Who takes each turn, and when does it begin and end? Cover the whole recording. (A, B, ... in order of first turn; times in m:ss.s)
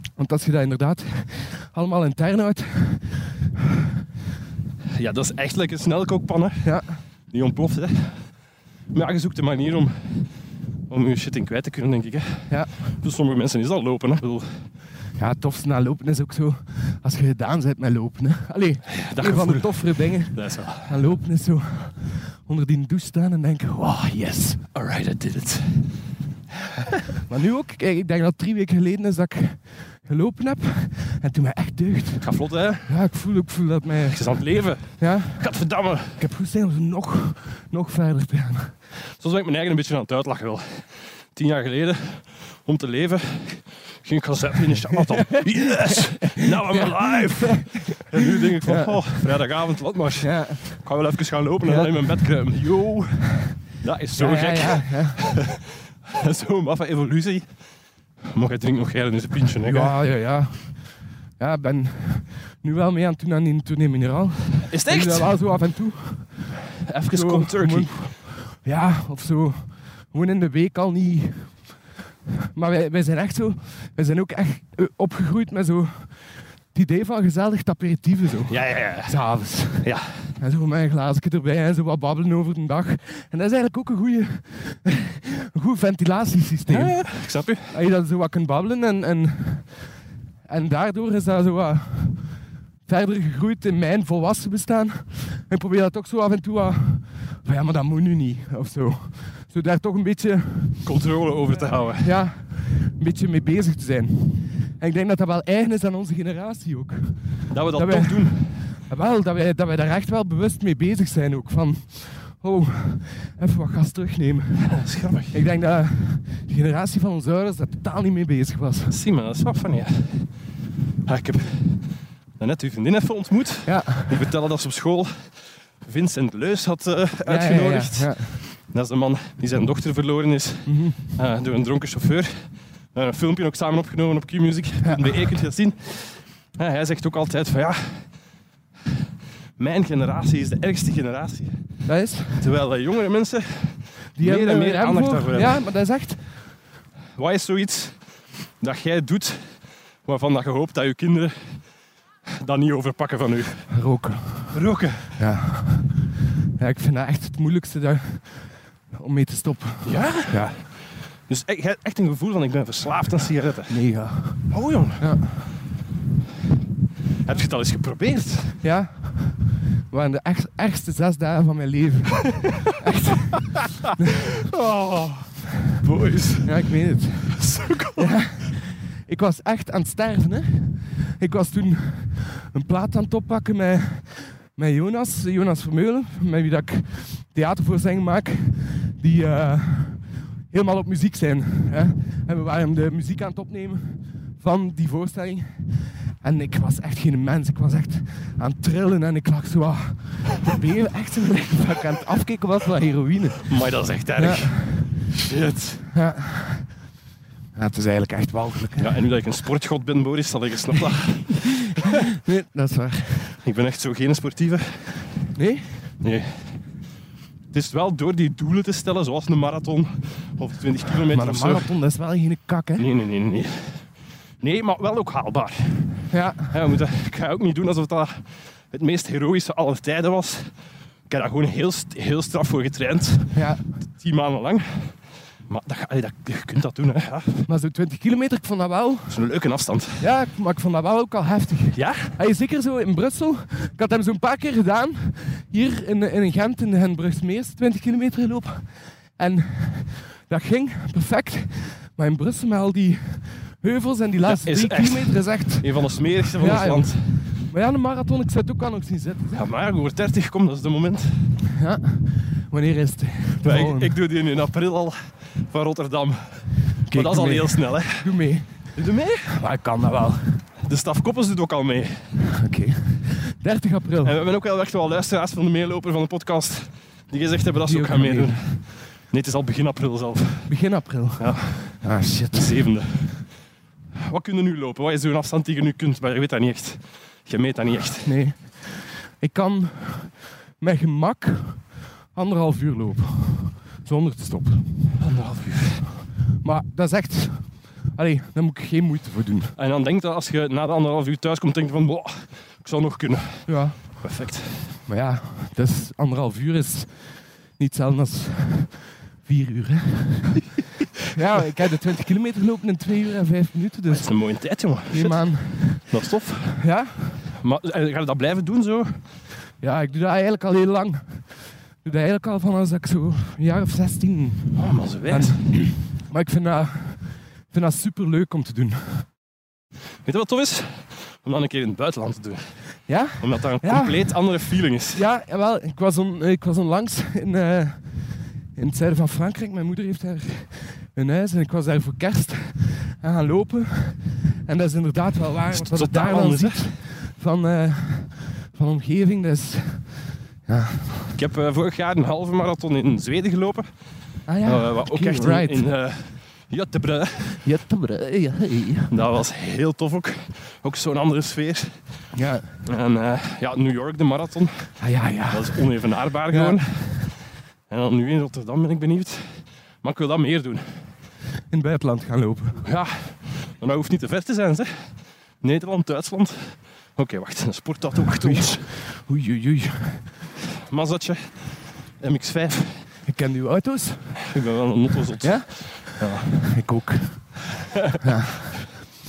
0:00.2-0:03.5 A
0:04.9-0:06.7 B
0:06.6-0:07.0 A
0:07.3-0:08.3 B
0:08.9-0:14.7 B
0:15.2-0:24.7 A
0:18.9-0:21.0 B
0:24.7-0:26.0 B
0:27.3-0:32.3 A
0:32.2-0:33.0 B
0:32.8-0:34.2 A
0:34.1-0:36.2 B
0:34.8-0:38.8 A
0:39.1-0:57.6 B
0:45.4-0:48.0 A
0:48.6-0:49.2 A
0:50.2-0:50.9 A
0:51.6-0:52.2 A
0:54.2-0:55.3 A
0:58.3-1:00.0 B
0:59.6-1:11.7 A
1:04.7-1:05.3 B
1:06.8-1:08.1 B
1:12.5-1:29.9 A
1:18.5-1:20.1 B
1:26.7-1:27.7 B
1:30.4-1:40.9 A
1:40.8-1:42.1 B
1:41.5-1:58.9 A
1:47.5-1:48.5 B
1:54.7-1:55.4 B
1:58.9-2:00.4 B
2:01.0-2:18.2 B
2:03.6-2:04.2 A
2:07.2-2:08.4 A
2:10.6-2:11.1 A
2:14.8-2:15.3 A
2:19.6-2:21.7 B
2:21.8-2:22.5 A
2:22.3-2:25.7 B
2:24.2-2:26.4 A
2:27.2-2:31.7 B
2:32.3-2:33.8 B
2:33.7-2:34.6 A
2:34.5-2:35.2 B
2:35.1-2:40.6 A
2:39.8-2:45.1 B
2:43.7-2:45.5 A
2:47.2-2:48.6 B
2:48.6-2:54.0 A
2:54.5-2:56.7 B
2:56.4-3:23.5 A
2:57.4-2:58.1 B
3:23.5-3:25.9 B
3:24.2-3:24.9 A
3:25.9-3:26.8 A
3:27.5-3:28.9 A
3:28.8-3:31.8 B
3:32.2-3:33.3 A
3:33.4-3:35.0 B
3:35.3-3:35.8 A
3:36.0-3:36.6 B
3:37.5-3:41.7 B
3:41.1-3:42.9 A
3:42.8-3:50.5 B
3:46.1-3:46.5 A
3:51.1-3:53.4 B
3:53.3-3:53.6 A
3:53.9-3:57.4 B
3:57.5-3:59.2 A
3:59.1-4:00.0 B
4:00.0-4:19.4 A
4:01.7-4:02.1 B
4:14.2-4:17.2 B
4:19.3-4:21.3 B
4:21.5-4:24.0 A
4:23.4-4:28.1 B
4:26.9-4:30.4 A
4:28.7-4:29.4 B
4:30.6-4:32.1 B
4:32.3-4:34.2 A
4:34.0-4:40.6 B
4:37.6-4:38.5 A
4:40.5-4:42.7 A
4:41.2-4:43.3 B
4:44.0-4:48.1 B
4:48.0-4:54.9 A
4:55.0-4:56.0 B
4:56.4-4:59.5 A
4:59.6-5:04.8 B
5:03.5-5:04.0 A
5:04.8-5:10.5 A
5:11.1-5:14.2 A
5:13.9-5:16.6 B
5:14.9-5:15.9 A
5:16.6-5:17.2 A
5:17.3-5:19.0 B
5:19.6-5:29.1 A
5:24.5-5:25.4 B
5:30.0-5:32.6 B
5:32.9-5:34.2 A
5:33.2-5:35.0 B
5:34.9-5:51.2 A
5:45.5-5:46.6 B
5:51.1-5:53.7 B
5:54.2-5:55.7 A
5:54.4-5:57.4 B
5:57.4-5:58.9 A
5:58.9-6:01.8 B
6:02.1-6:02.5 A
6:02.6-6:07.2 B
6:04.8-6:05.7 A
6:06.3-6:06.9 A
6:07.7-6:10.9 B
6:11.5-6:12.6 A
6:12.6-6:18.6 B
6:18.1-6:20.2 A
6:20.7-6:22.9 B
6:23.0-6:24.2 A
6:24.2-6:26.6 B
6:25.2-6:28.5 A